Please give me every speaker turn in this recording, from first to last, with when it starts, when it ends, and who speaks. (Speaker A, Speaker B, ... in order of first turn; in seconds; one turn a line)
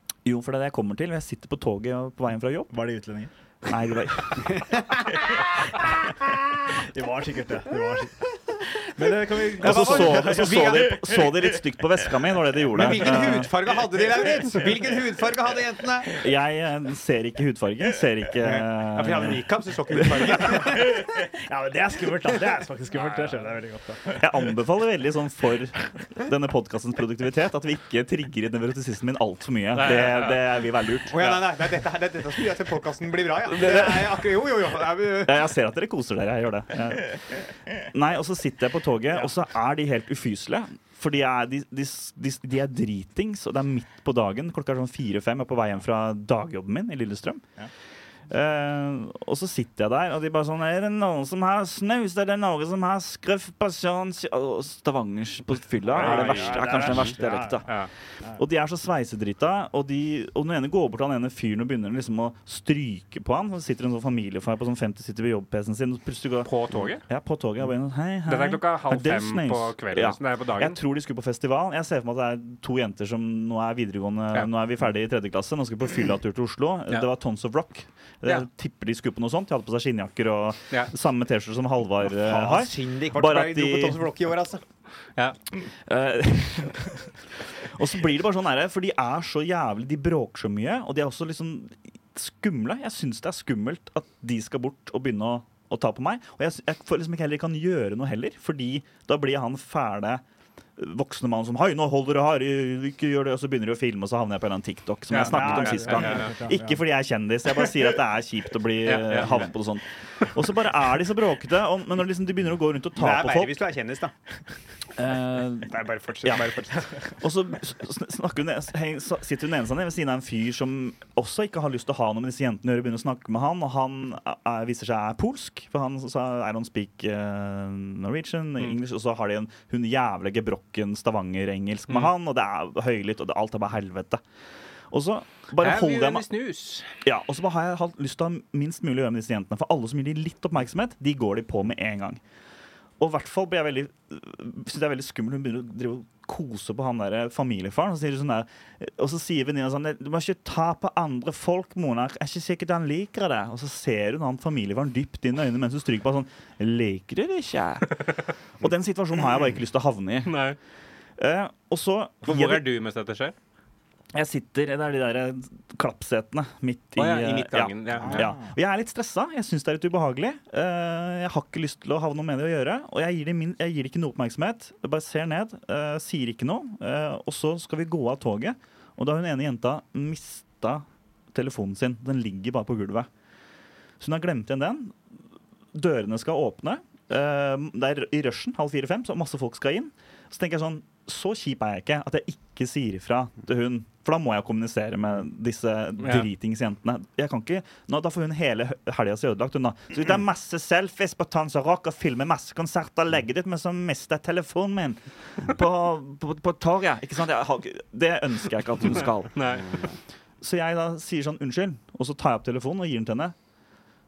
Speaker A: 0.2-2.7
Speaker B: 2.7-3.3
Speaker A: 3.6-4.6
Speaker C: 4.5-4.9
Speaker B: 6.7-10.7
Speaker C: 9.6-11.3
Speaker A: 9.6-13.5
Speaker C: 12.7-16.2
Speaker A: 16.2-20.2
Speaker C: 18.4-21.0
Speaker B: 21.0-24.2
Speaker A: 24.1-31.4
Speaker D: 29.8-30.4
Speaker C: 31.1-35.4
Speaker A: 33.5-34.2
Speaker A: 35.2-47.4
Speaker A: 48.3-57.8
Speaker B: 55.9-57.6
Speaker D: 56.0-57.0
Speaker A: 58.4-66.5
Speaker D: 66.4-67.0
Speaker A: 67.0-84.0
Speaker D: 68.2-70.8
Speaker C: 82.2-84.6
Speaker A: 85.9-100.2
Speaker A: 100.8-113.5
Speaker D: 105.1-106.3
Speaker B: 105.2-106.8
Speaker D: 108.8-109.5
Speaker C: 113.0-114.1
Speaker A: 114.9-116.5
Speaker C: 115.7-117.0
Speaker A: 117.2-134.2
Speaker A: 134.9-136.2
Speaker D: 135.6-136.9
Speaker A: 137.0-142.2
Speaker A: 143.0-160.3
Speaker D: 160.2-160.6
Speaker A: 161.2-162.7
Speaker D: 162.2-163.3
Speaker A: 164.1-183.1
Speaker D: 166.9-168.3
Speaker B: 168.0-168.5
Speaker A: 184.0-184.9
Speaker A: 185.7-209.6
Speaker D: 209.3-209.8
Speaker A: 210.4-213.3